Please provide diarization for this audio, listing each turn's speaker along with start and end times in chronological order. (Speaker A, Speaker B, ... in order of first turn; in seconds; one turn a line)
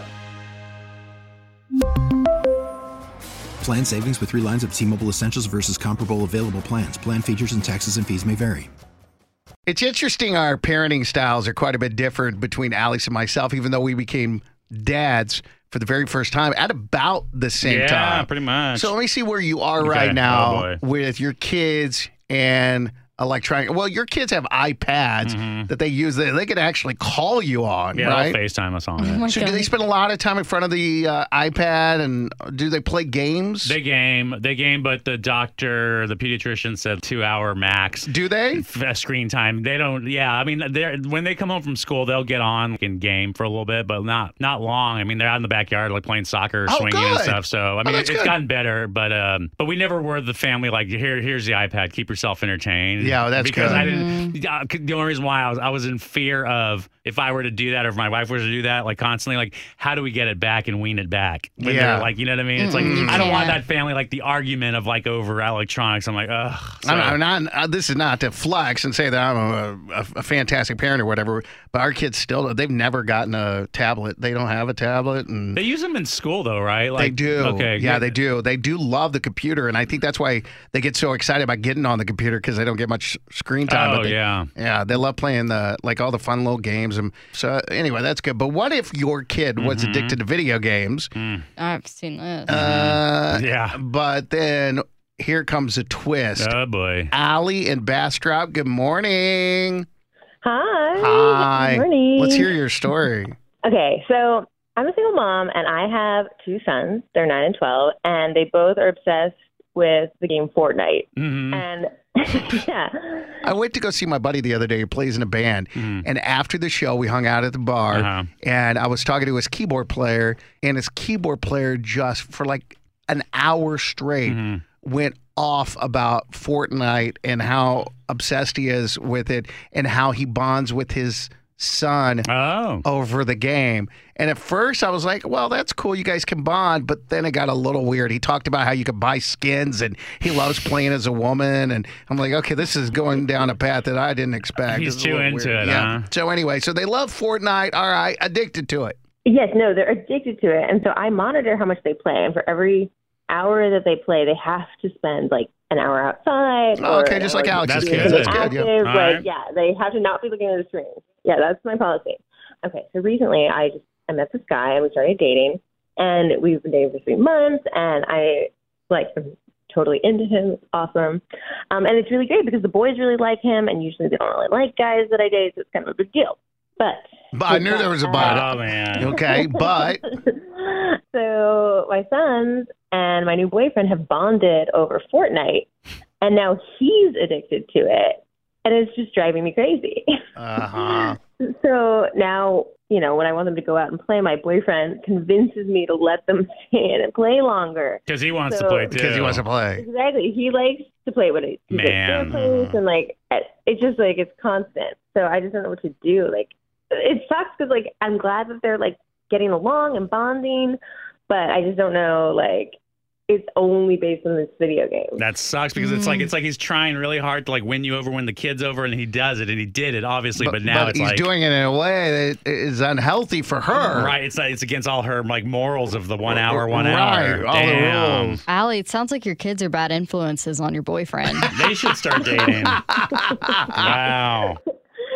Speaker A: 3.6-8.7
Speaker B: 9.7-28.4
Speaker C: 17.6-18.9
Speaker C: 19.8-20.8
Speaker C: 25.2-25.7
Speaker C: 27.9-29.2
Speaker D: 29.0-29.7
Speaker B: 29.2-33.8
Speaker C: 33.6-67.2
Speaker B: 38.1-38.6
Speaker B: 46.7-48.3
Speaker B: 53.0-53.9
Speaker D: 53.6-54.4
Speaker B: 61.6-62.1
Speaker D: 62.6-63.6
Speaker B: 62.7-63.6
Speaker B: 66.8-75.6
Speaker C: 75.5-78.2
Speaker B: 77.0-91.1
Speaker C: 83.7-84.5
Speaker C: 89.6-90.2
Speaker C: 91.2-91.5
Speaker D: 91.6-92.6
Speaker B: 92.5-96.5
Speaker C: 92.5-93.8
Speaker C: 96.4-97.1
Speaker B: 97.1-99.8
Speaker E: 100.4-102.5
Speaker B: 101.0-103.3
Speaker E: 103.6-113.4
Speaker C: 111.2-111.6
Speaker B: 113.4-132.3
Speaker C: 115.8-116.0
Speaker C: 117.9-118.3
Speaker C: 124.3-124.6
Speaker C: 132.3-132.8
Speaker B: 132.8-149.0
Speaker C: 144.7-146.1
Speaker E: 149.2-185.7
Speaker B: 156.8-158.7
Speaker C: 157.6-159.2
Speaker B: 177.3-180.1
Speaker C: 178.2-179.2
Speaker E: 186.2-190.1
Speaker B: 190.4-191.2
Speaker E: 190.9-199.0
Speaker C: 198.1-199.4
Speaker B: 198.9-199.8
Speaker E: 199.8-212.8
Speaker C: 201.7-202.4
Speaker B: 202.3-202.8
Speaker E: 213.3-215.2
Speaker C: 215.2-221.3
Speaker D: 215.8-216.3
Speaker B: 220.4-224.2
Speaker C: 223.8-228.4
Speaker B: 226.4-228.4
Speaker D: 228.5-231.5
Speaker C: 231.5-232.8
Speaker B: 232.7-234.0
Speaker E: 233.2-233.8
Speaker C: 233.8-234.6